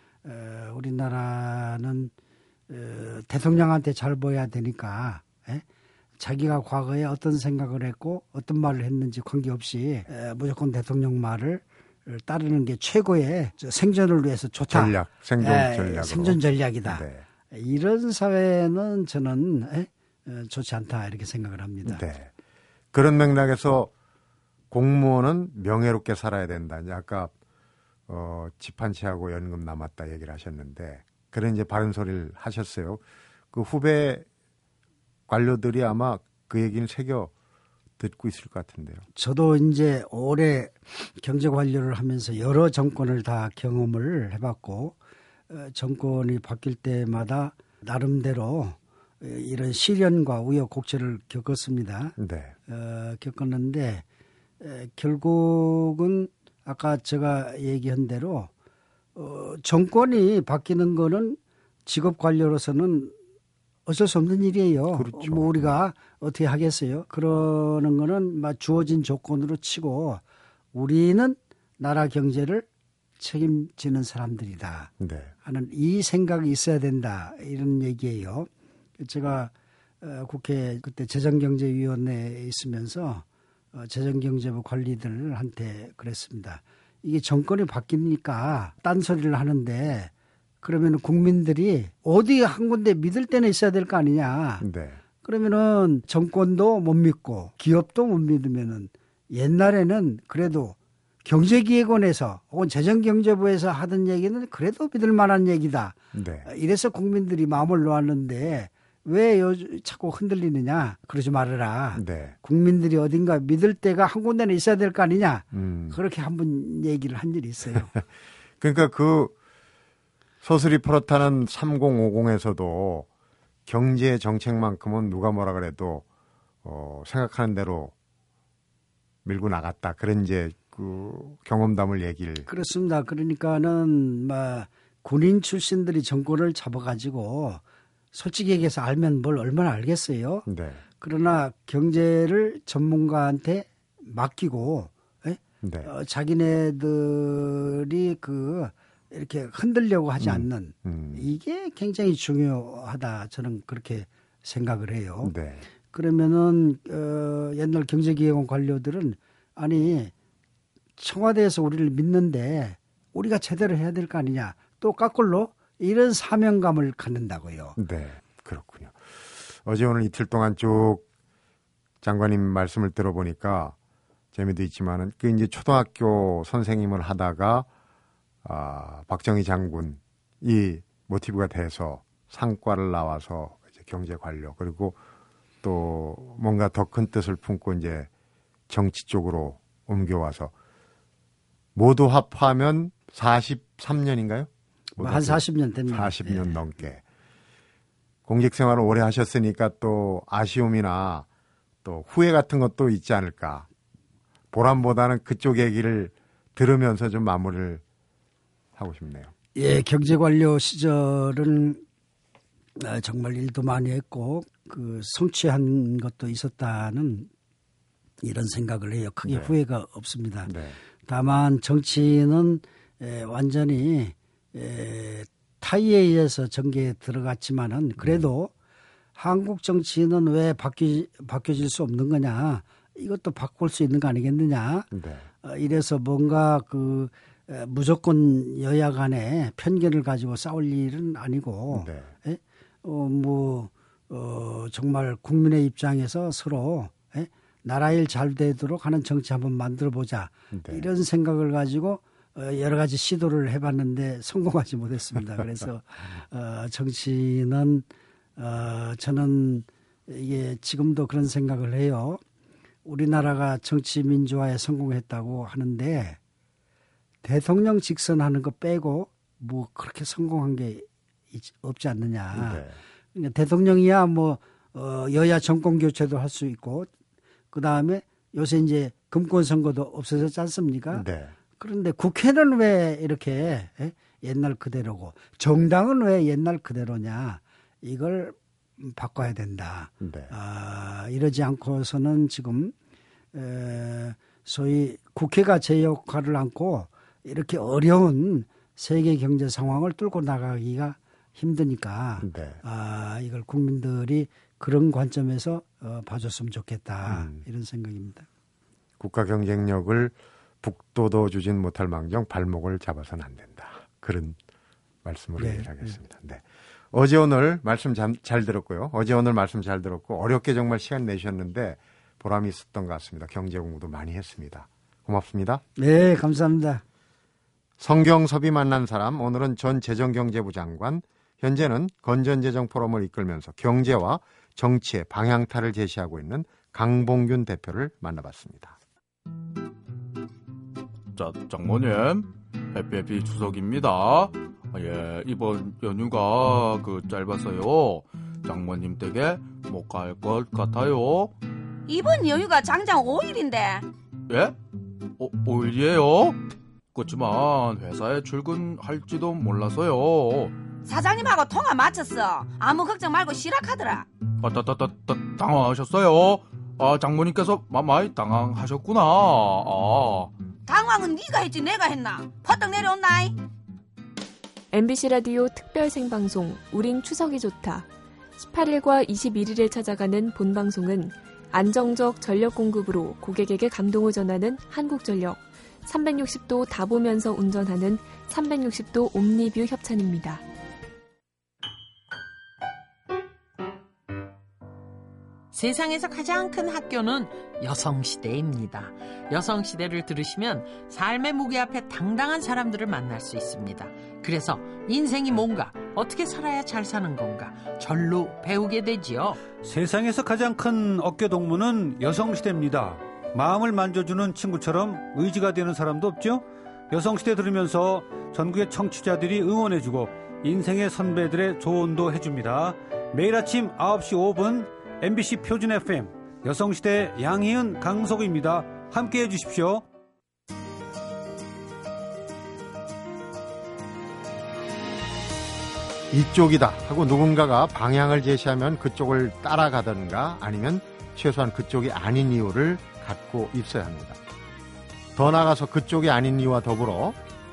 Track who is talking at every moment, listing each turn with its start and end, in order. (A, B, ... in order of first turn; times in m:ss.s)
0:00.2-0:02.1 A
0:02.7-0:05.6 A
0:06.2-0:22.0 A
0:14.7-0:17.2 B
0:21.8-0:22.3 B
0:22.9-0:23.9 B
0:24.7-0:27.3 B
0:28.1-0:34.2 B
0:35.3-0:37.3 B
0:38.0-0:39.0 B
0:39.1-0:45.0 A
0:45.5-0:52.1 A
0:52.2-0:52.5 B
0:52.7-0:54.0 A
0:54.6-0:58.5 A
0:59.2-1:03.1 A
1:03.8-1:10.2 A
1:04.9-1:05.7 B
1:10.7-1:12.6 A
1:13.2-1:14.9 A
1:15.0-1:15.3 B
1:15.4-1:18.5 A
1:19.0-1:34.6 A
1:34.6-1:35.0 B
1:35.2-1:57.9 A
1:46.1-1:46.5 B
1:51.9-1:52.4 B
1:55.5-1:56.0 B
1:58.6-1:59.3 B
2:00.4-2:03.1 B
2:03.6-2:06.0 B
2:06.6-2:07.9 B
2:09.2-2:12.5 B
2:12.5-2:17.6 A
2:18.1-2:20.5 A
2:20.5-2:20.8 B
2:21.0-2:35.3 A
2:25.6-2:25.9 B
2:30.2-2:31.2 B
2:35.2-2:35.6 B
2:35.9-2:40.1 A
2:41.0-2:47.8 A
2:47.8-2:51.0 B
2:52.0-2:53.7 B
2:54.3-2:57.7 B
2:58.4-3:05.0 B
3:05.6-3:08.1 B
3:08.7-3:10.5 B
3:11.7-3:17.0 B
3:15.0-3:16.6 A
3:18.2-3:21.2 B
3:21.8-3:23.7 B
3:24.5-3:27.8 B
3:28.8-3:29.3 B
3:29.5-3:31.8 A
3:32.8-3:37.3 A
3:38.2-3:40.5 A
3:39.2-3:39.5 B
3:40.4-3:40.8 B
3:41.0-3:48.5 A
3:49.2-3:54.9 A
3:54.9-3:55.3 B
3:55.4-4:17.8 A
4:01.7-4:02.1 B
4:10.5-4:10.9 B
4:18.4-4:22.2 A
4:22.8-4:26.2 A
4:27.2-4:36.9 A
4:32.3-4:32.8 B
4:37.5-4:41.0 A
4:40.9-4:41.3 B
4:41.6-4:52.7 A
4:50.0-4:50.3 B
4:53.3-5:08.3 A
5:02.2-5:02.6 B
5:07.1-5:07.4 B
5:09.0-5:14.4 B
5:15.0-5:25.6 B
5:15.4-5:16.0 A
5:25.8-5:26.8 A
5:27.8-5:38.8 B
5:41.1-5:51.3 C
5:51.9-5:53.8 D
5:54.3-5:54.5 C
5:55.2-5:56.4 C
5:56.9-6:00.5 C
6:00.8-6:04.1 D
6:04.4-6:10.3 C
6:10.7-6:13.4 D
6:14.7-6:17.9 E
6:18.4-6:30.4 E
6:35.5-6:49.4 F
6:49.6-7:09.8 G
7:16.1-7:24.2 B
7:25.2-7:27.2 B